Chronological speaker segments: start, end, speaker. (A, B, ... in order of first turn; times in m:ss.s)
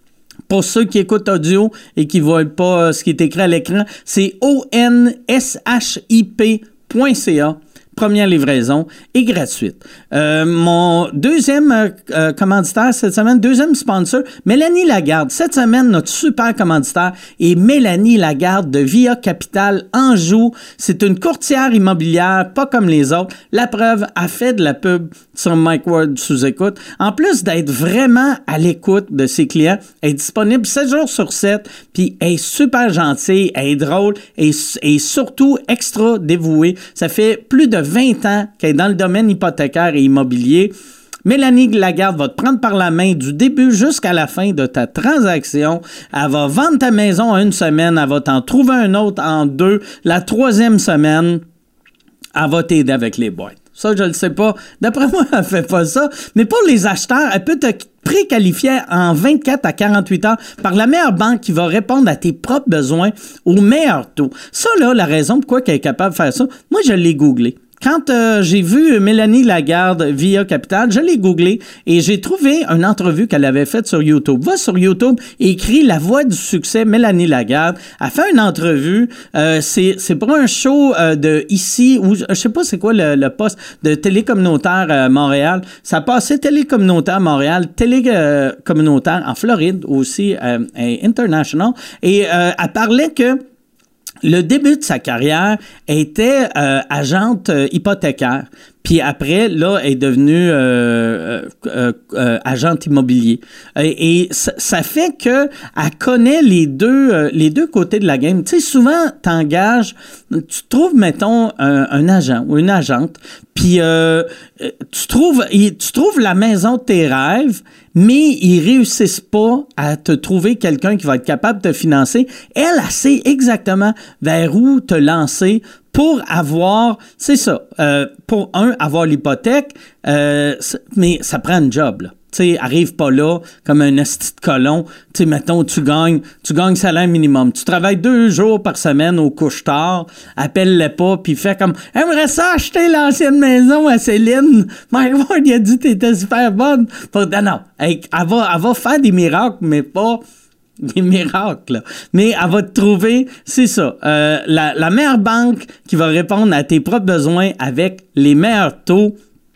0:00.5-0:40.7 A
0:41.2-0:51.4 A
0:52.3-1:33.4 A
1:34.2-2:30.2 A
2:30.8-2:39.2 A